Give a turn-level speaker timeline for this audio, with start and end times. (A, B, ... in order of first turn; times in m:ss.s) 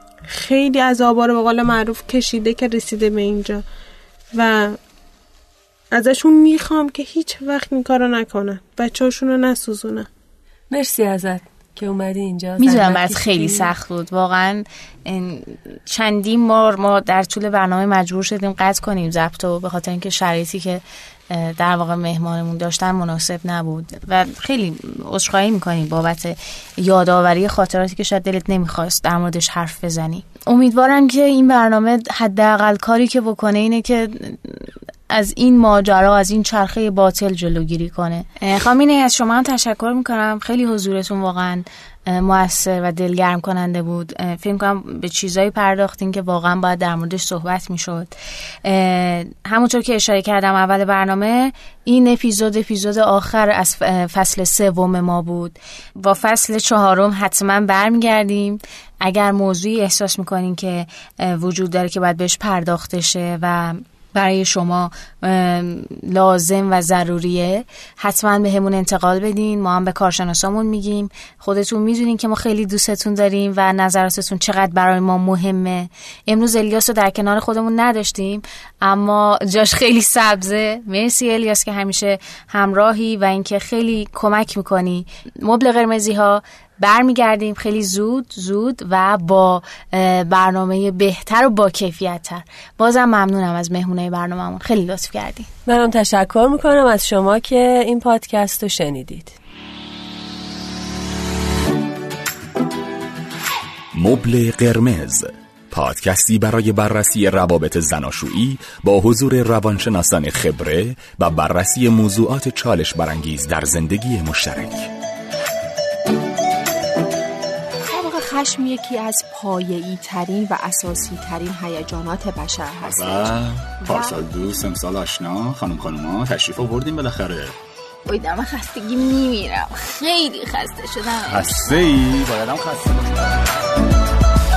0:00.3-0:03.6 A
0:04.3-0:04.8 A
0:05.9-0:10.1 A
0:10.7-0:13.7 B
0:12.6-0:48.1 C
0:48.6-1:35.5 C
1:35.7-1:39.4 B
1:43.9-1:54.9 D
1:57.8-2:04.2 E
2:02.8-2:07.6 F
2:08.1-2:11.8 C
2:11.2-2:13.4 F